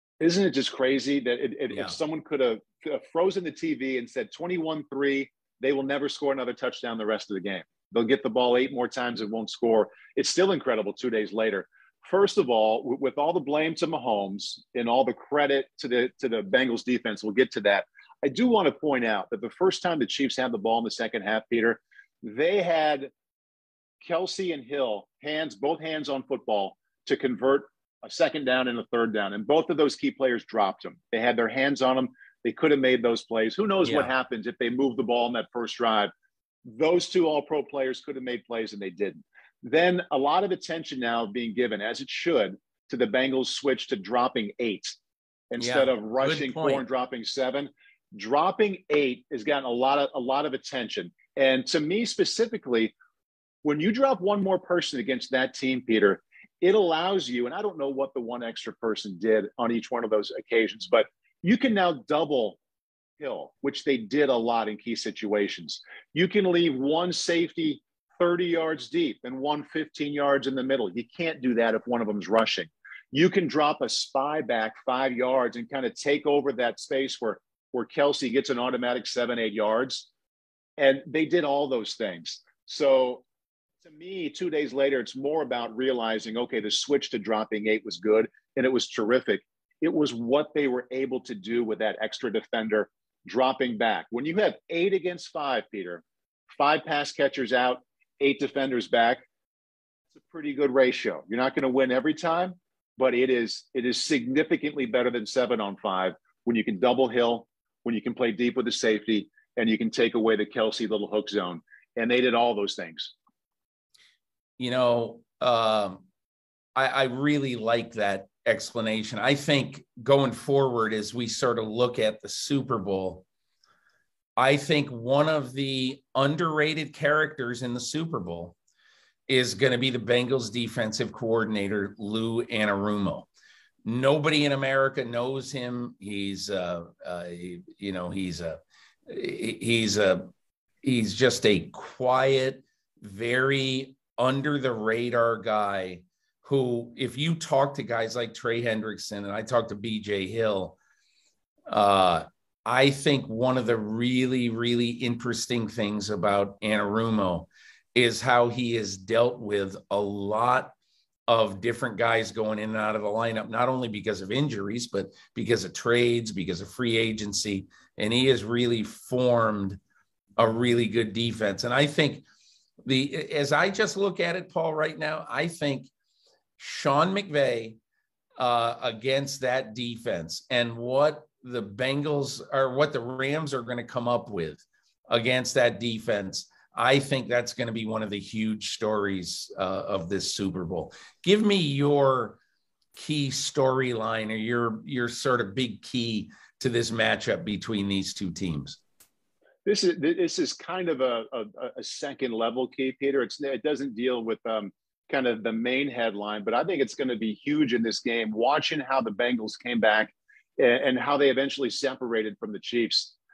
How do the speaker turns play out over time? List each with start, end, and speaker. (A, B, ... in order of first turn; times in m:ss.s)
0:00.2-0:23.1 A
0:01.7-0:02.0 B
0:24.0-0:36.1 A
0:33.8-0:34.1 B
0:36.7-0:45.0 A
0:45.5-0:52.9 A
0:45.6-0:46.8 B
0:53.6-1:02.6 A
1:03.2-1:20.1 A
1:20.8-1:23.2 A
1:23.8-1:39.2 A
1:40.1-1:53.1 A
1:54.6-1:56.0 B
1:56.8-2:03.2 B
2:04.4-2:08.6 B
2:09.3-2:13.3 B
2:13.8-2:20.3 B
2:20.8-2:30.8 B
2:31.7-2:40.7 B
2:41.3-2:49.8 B
2:50.4-2:52.2 B
2:52.8-2:55.9 B
2:56.6-2:57.8 B
2:58.4-3:12.4 B
3:13.0-3:18.8 B
3:19.6-3:33.2 A